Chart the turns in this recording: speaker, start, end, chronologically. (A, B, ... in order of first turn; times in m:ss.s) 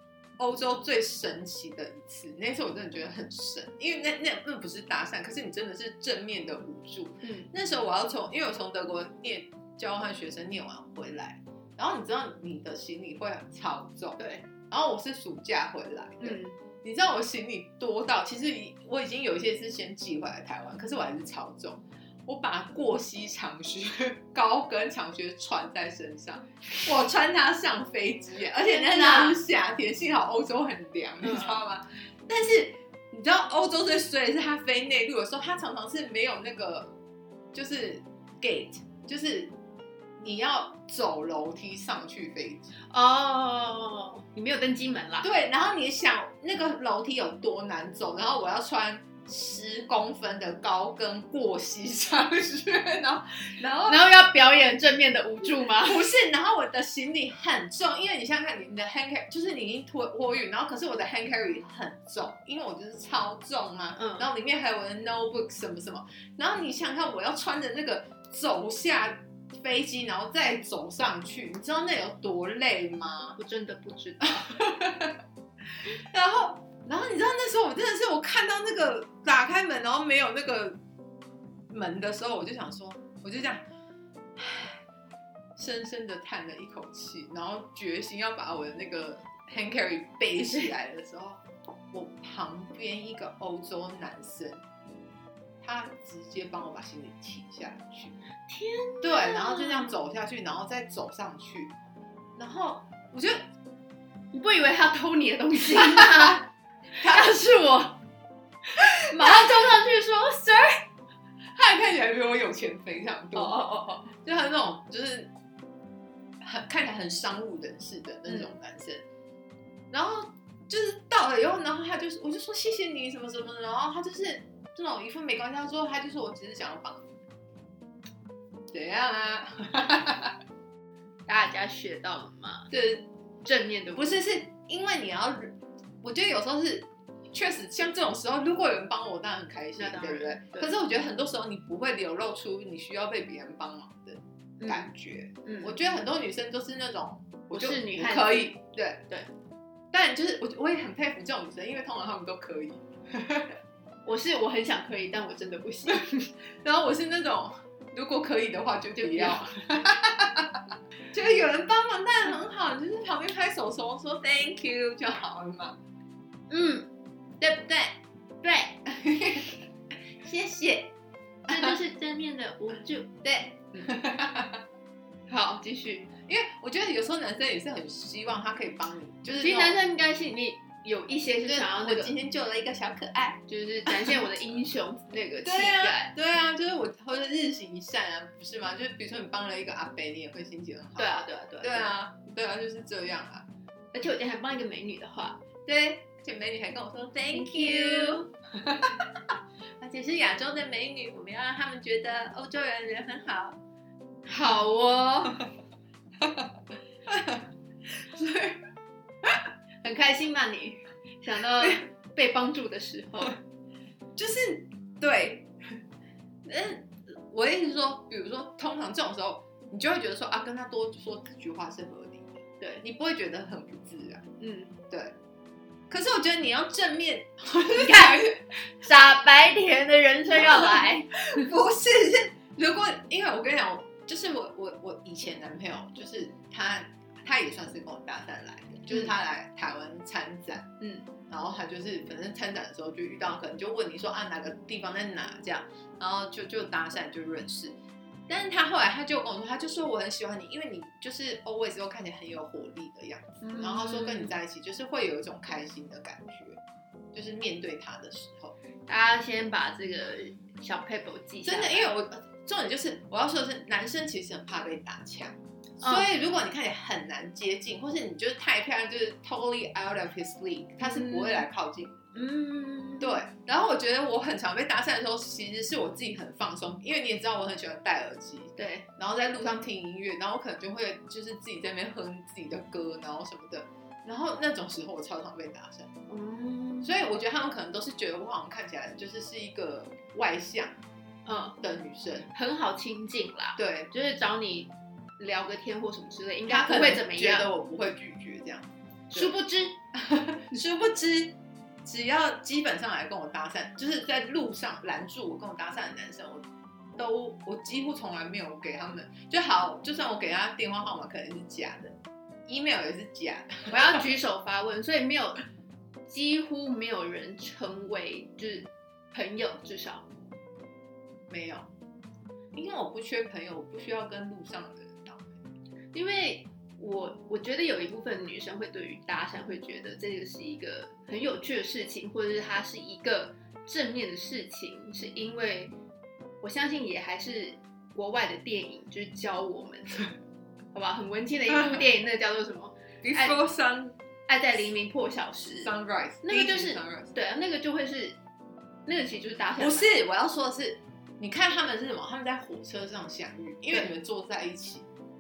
0:00.4-0:36.9 A
0:07.2-0:07.5 B
0:14.2-0:14.4 B
0:16.2-0:16.6 B
0:28.7-0:29.4 B
0:31.2-0:31.6 B
0:37.5-0:39.5 A
0:40.2-0:42.7 A
0:42.9-0:45.3 B
0:45.2-0:54.0 A
0:53.9-0:56.0 B
0:55.8-1:13.4 A
1:04.0-1:04.3 B
1:13.4-1:14.5 B
1:14.2-1:15.2 A
1:15.8-1:20.8 A
1:21.7-1:23.6 A
1:24.4-1:24.8 A
1:25.6-1:34.6 A
1:35.6-1:38.2 A
1:38.5-1:40.0 B
1:39.0-1:41.7 A
1:42.4-1:43.4 A
1:44.3-1:46.5 B
1:46.0-1:46.3 A
1:47.0-1:48.0 B
1:47.0-1:47.3 A
1:49.0-1:50.8 B
1:51.6-1:55.3 A
1:53.3-1:54.1 B
1:56.4-1:59.0 A
1:58.3-1:58.5 B
1:59.9-2:07.1 A
2:08.7-2:10.4 A
2:11.3-2:12.7 B
2:12.7-2:13.1 A
2:13.4-2:14.2 B
2:14.0-2:29.0 A
2:19.8-2:20.7 B
2:24.6-2:24.9 B
2:25.4-2:25.7 B
2:27.5-2:28.6 B
2:29.9-2:33.6 A
2:34.0-2:36.3 B
2:36.6-2:45.8 A
2:39.0-2:39.5 B
2:46.5-2:46.9 B
2:47.4-2:48.8 B
2:48.9-2:49.6 A
2:50.2-2:50.9 A
2:51.5-2:51.8 A
2:51.5-2:53.9 B
2:53.8-2:54.6 A
2:55.3-2:56.1 B
2:56.2-2:59.8 A
2:59.4-3:02.1 B
3:01.4-3:04.4 A
3:03.5-3:06.1 B
3:05.4-3:13.5 A
3:11.0-3:11.9 B
3:13.9-3:15.4 B
3:15.7-3:19.1 A
3:17.3-3:18.3 B
3:19.8-3:23.6 A
3:24.3-3:25.4 B
3:26.2-3:26.5 A
3:27.1-3:28.6 A
3:29.8-3:33.4 B
3:31.6-3:31.8 A
3:34.2-3:35.5 A
3:36.4-3:44.2 A
3:44.4-3:44.7 B
3:44.9-3:45.2 A
3:45.9-3:48.4 A
3:47.7-3:51.2 B
3:50.4-4:00.7 A
4:00.8-4:01.1 B
4:01.3-4:07.8 A
4:08.3-4:16.6 A
4:13.4-4:14.3 B
4:17.1-4:18.6 A
4:18.9-4:21.9 B
4:21.4-4:32.0 A
4:25.8-4:26.1 B
4:30.8-4:31.4 B
4:32.1-4:33.2 B
4:33.0-4:45.9 A
4:38.6-4:38.9 B
4:46.1-4:46.9 B
4:46.8-4:50.7 A
4:51.3-4:51.6 B
4:51.6-4:52.3 A
4:52.3-4:57.5 B
4:53.6-4:53.9 A
4:56.5-4:59.4 A
4:59.1-4:59.8 B
4:59.9-5:06.4 A
5:07.0-5:14.0 A
5:13.7-5:15.4 B
5:16.1-5:20.1 B
5:21.3-5:21.7 A
5:22.5-5:25.4 A
5:25.9-5:35.7 B
5:36.4-5:40.0 B
5:40.7-5:43.4 B
5:41.5-5:41.8 A
5:43.0-5:44.0 A
5:44.3-5:48.2 B
5:45.5-5:47.1 A
5:48.9-5:49.9 B
5:49.6-5:54.9 A